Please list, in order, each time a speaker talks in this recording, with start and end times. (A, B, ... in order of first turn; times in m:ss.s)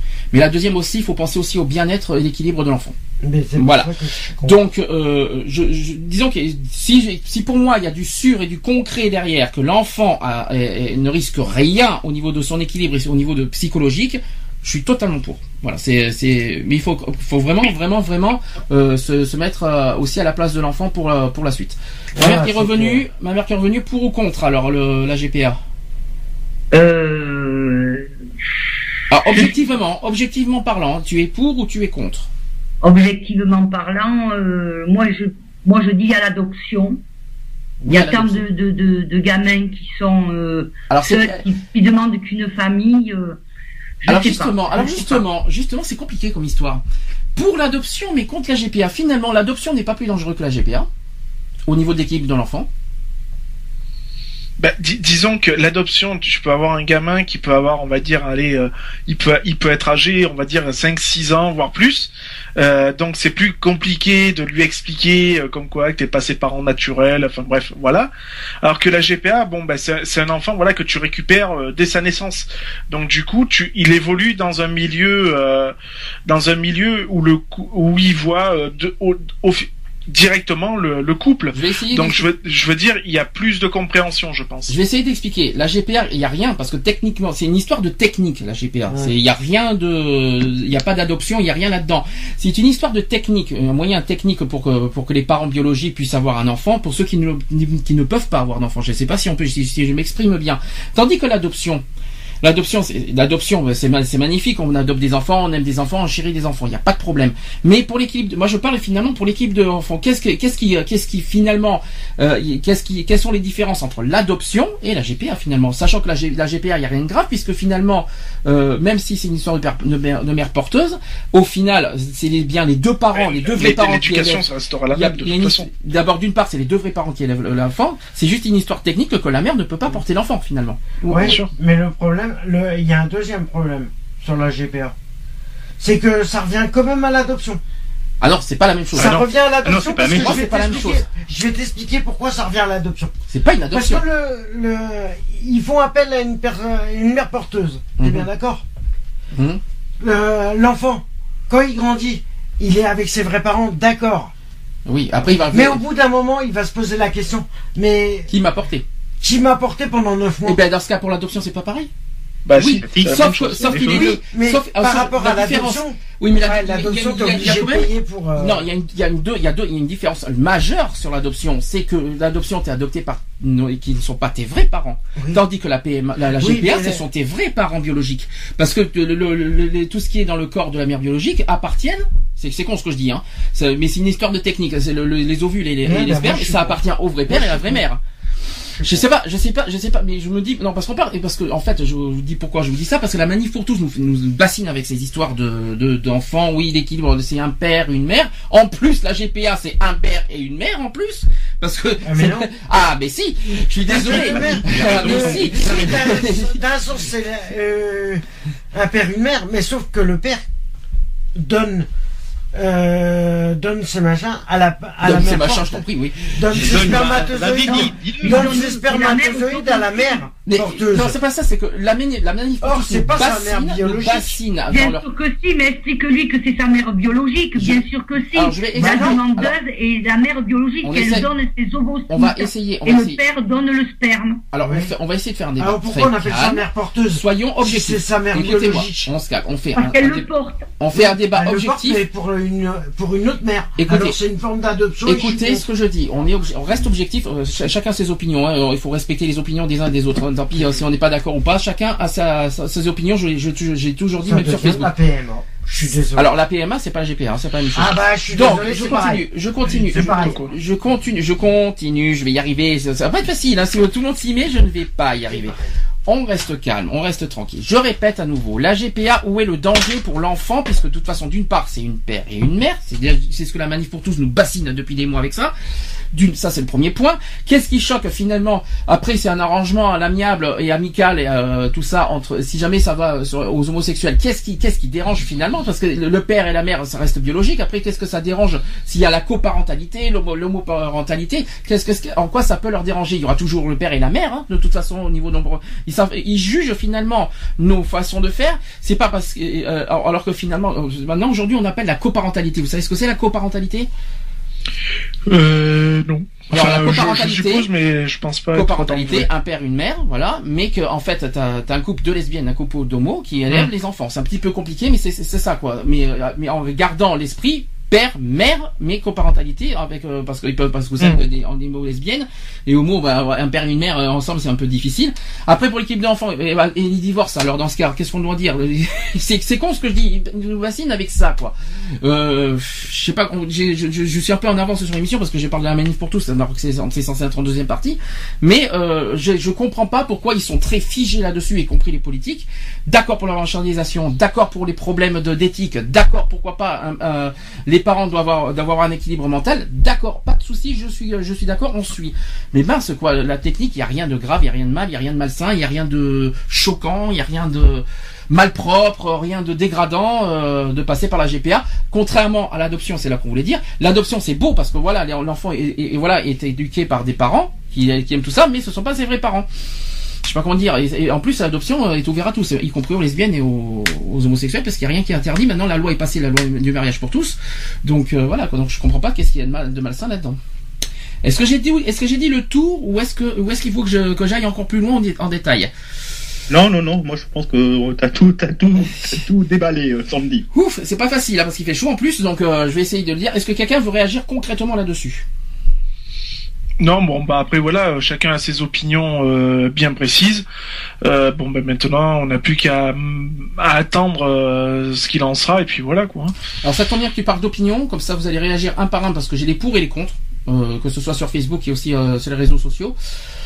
0:00.3-0:03.0 A
0:03.2-0:04.6 B
0:03.6-0:25.6 A
0:22.1-0:23.0 B
0:26.7-0:28.1 C
0:29.1-0:32.3 A
0:32.8-0:37.0 C
0:37.8-0:38.4 A
0:37.9-0:43.4 C
0:40.9-0:41.4 A
0:44.0-0:45.2 C
0:44.1-0:46.8 A
0:47.4-0:50.9 A
0:51.7-0:52.7 A
0:54.6-1:08.1 D
1:08.6-1:15.7 D
1:16.3-1:24.7 D
1:21.5-1:22.3 A
1:24.7-1:41.8 A
1:28.9-1:29.1 B
1:42.4-2:11.4 A
2:03.1-2:05.7 D
2:11.1-2:15.0 B
2:11.2-2:11.5 D
2:15.8-2:17.6 B
2:18.2-2:19.2 A
2:18.9-2:23.1 B
2:19.0-2:19.3 D
2:19.6-2:20.4 E
2:20.0-2:21.0 A
2:23.3-2:24.0 A
2:23.7-2:28.6 B
2:28.0-2:28.3 A
2:29.4-2:29.6 A
2:30.0-2:34.3 B
2:34.9-2:35.8 A
2:35.3-2:38.3 B
2:38.3-2:38.8 A
2:39.2-2:40.6 B
2:40.4-2:41.9 A
2:42.4-2:43.9 D
2:42.6-3:08.0 A
2:42.8-2:44.2 E
2:43.9-2:48.7 B
2:55.2-2:55.4 B
2:56.4-2:57.0 B
3:05.8-3:07.8 B
3:08.8-3:26.6 A
3:22.0-3:22.5 B
3:23.9-3:30.4 B
3:24.1-3:25.9 E
3:31.4-3:31.9 B
3:32.5-3:41.2 B
3:35.0-3:36.8 A
3:36.5-3:38.6 E
3:37.6-3:40.2 C
3:40.4-3:45.0 A
3:42.6-3:44.4 B
3:44.7-3:54.4 C
3:47.6-3:49.6 A
3:48.7-3:49.2 B
3:50.8-3:51.3 A
3:52.1-3:53.2 A
3:54.5-4:00.3 A
3:54.6-3:54.9 B
3:55.6-3:59.1 B
3:59.7-4:00.7 C
4:00.8-4:02.0 A
4:00.9-4:05.6 B
4:03.8-4:04.2 A
4:05.1-4:14.9 A
4:14.3-4:16.3 B
4:16.1-4:35.5 A
4:17.7-4:20.4 B
4:19.9-4:20.5 D
4:25.3-4:25.6 B
4:36.1-5:03.9 A
5:05.3-5:09.3 D
5:06.5-5:07.7 A
5:08.5-6:09.5 A
6:10.2-6:20.4 A
6:21.2-6:25.7 A
6:26.5-6:30.5 E
6:30.5-6:35.2 A
6:36.8-6:40.4 D
6:41.0-6:46.3 D
6:46.6-6:53.0 A